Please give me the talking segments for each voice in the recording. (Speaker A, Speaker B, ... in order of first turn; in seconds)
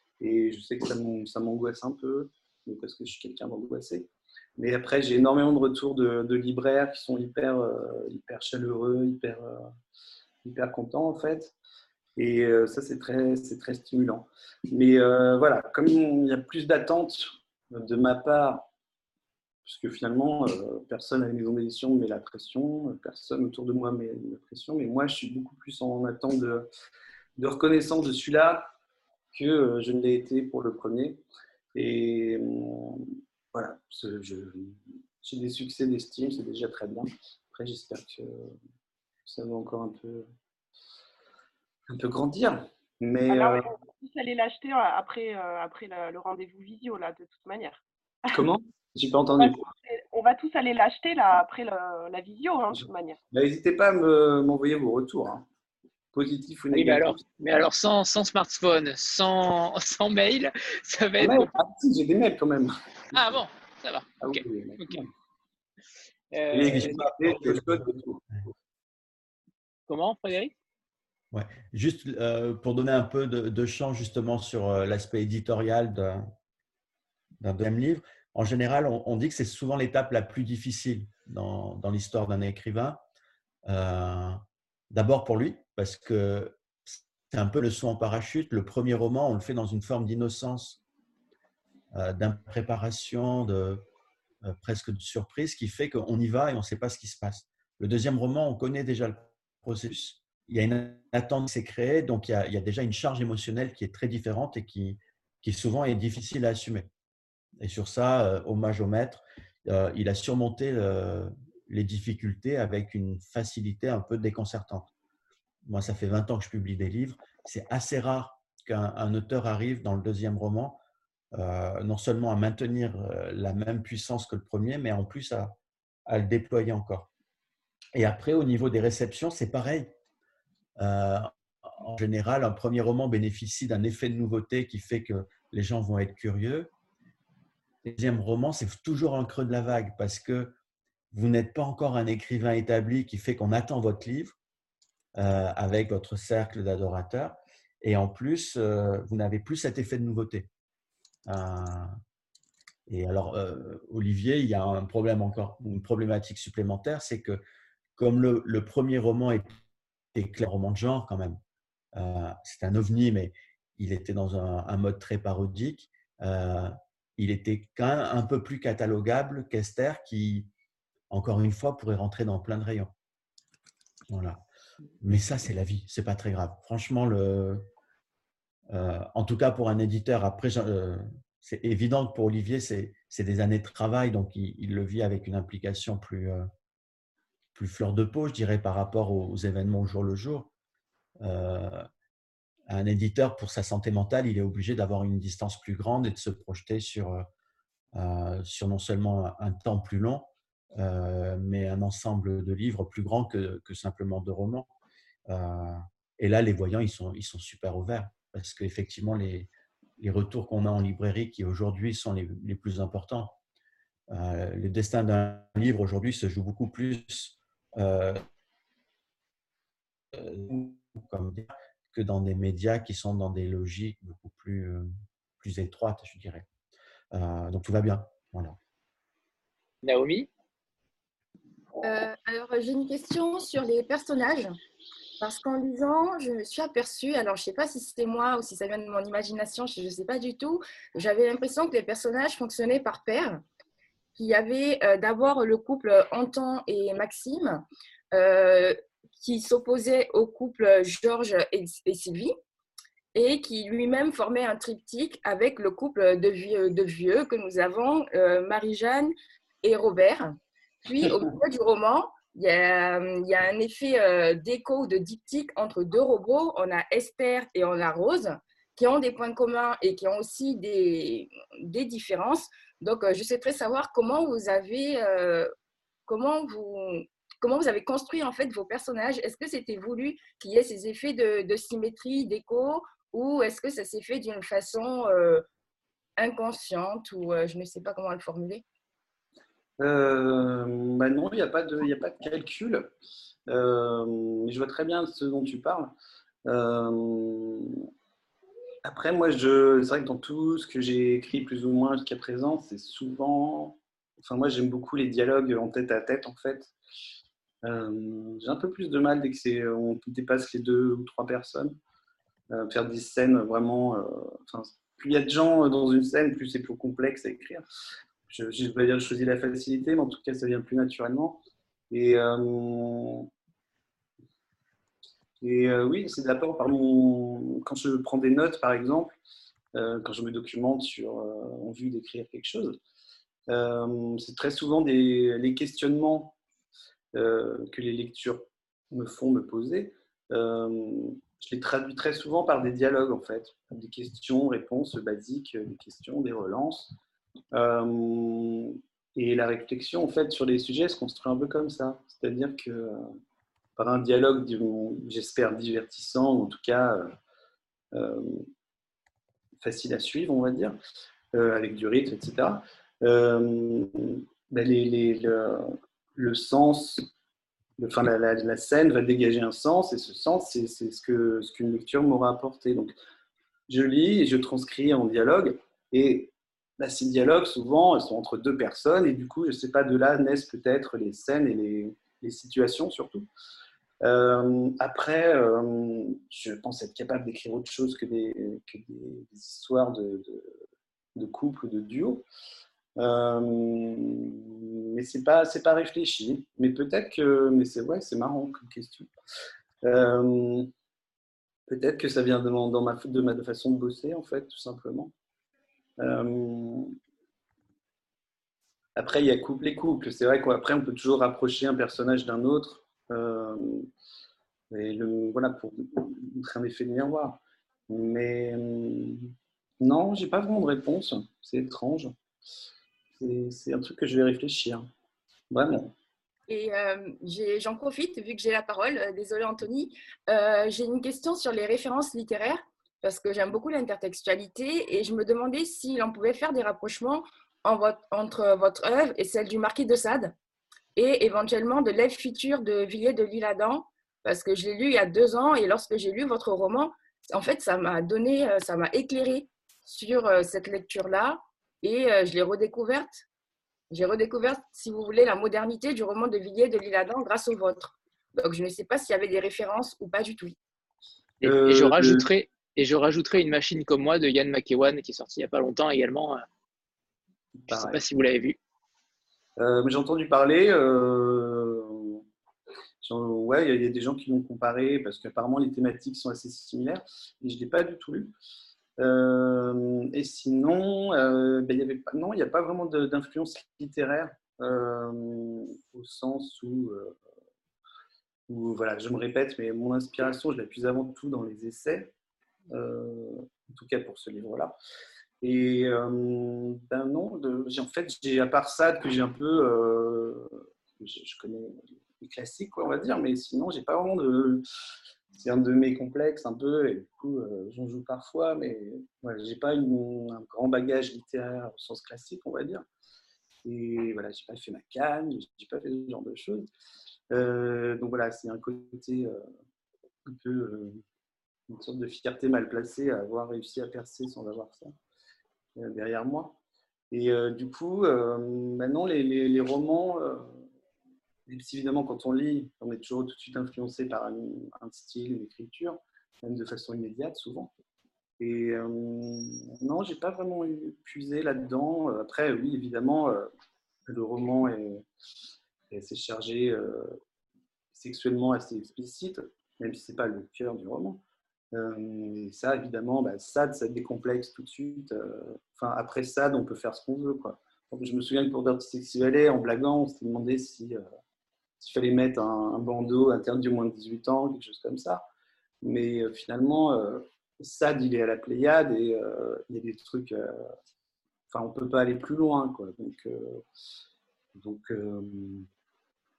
Speaker A: 0.2-9.7, 10.4-11.6, 12.2-18.7, 19.6-26.7, 27.4-28.7, 29.3-31.2, 31.8-38.6, 39.3-40.3, 41.9-43.7, 48.3-49.7, 52.7-55.5, 56.1-57.2, 61.2-63.4, 64.2-65.1, 66.5-68.2, 289.8-292.9, 293.5-295.9, 296.4-297.8, 298.9-306.7, 307.6-311.8, 312.5-317.6, 318.3-323.3, 325.4-329.2, 329.7-332.8, 333.5-336.3, 337.1-346.9, 347.5-353.0, 353.8-357.1, 357.9-358.5, 359.6-360.8, 361.3-367.1, 367.8-372.9, 373.7-383.3, 384.0-390.6, 391.2-392.2, 393.0-399.1, 399.8-400.7, 401.7-405.1, 406.0-406.9, 409.0-413.9, 414.7-422.1, 423.2-424.9, 425.5-425.9, 461.4-462.2, 467.6-468.0, 469.6-472.2, 473.0-478.3, 479.0-487.2, 488.5-492.1, 492.7-494.8, 495.4-504.6, 505.4-512.9, 513.6-516.7, 517.3-519.4, 520.3-521.0, 521.7-525.0, 525.8-526.6, 527.1-530.6, 531.5-537.7, 538.4-543.5, 544.1-545.0, 545.9-547.2, 547.9-561.0, 561.8-565.2, 565.8-570.6, 571.5-573.6, 574.5-575.7
Speaker B: 43.3-48.4, 49.4-53.2
Speaker C: 56.7-61.5, 63.1-65.0, 66.3-66.9, 69.9-70.5, 229.8-230.3, 461.4-466.5, 467.7-468.6
Speaker D: 66.7-67.9, 71.3-76.3, 77.4-83.0, 83.7-86.6, 87.3-90.8, 91.9-93.8, 94.4-106.9, 107.6-114.9, 115.7-120.8, 121.3-127.1, 128.0-129.9, 130.8-136.7, 137.8-140.6, 141.1-144.4, 145.2-150.5, 151.3-152.0, 152.9-157.4, 158.0-159.6, 160.1-161.4, 161.9-170.5, 171.1-172.9, 174.1-174.4, 175.0-177.6, 178.7-186.5, 187.6-190.5, 191.2-191.9, 192.7-197.3, 197.9-204.7, 205.3-213.4, 214.1-218.2, 220.1-224.9, 225.4-226.5, 227.1-228.6
Speaker E: 231.8-234.6, 235.2-243.4, 244.2-252.3, 253.2-259.1, 259.6-275.5, 276.1-285.4, 286.2-288.6, 426.5-440.3, 441.0-453.2, 453.9-460.6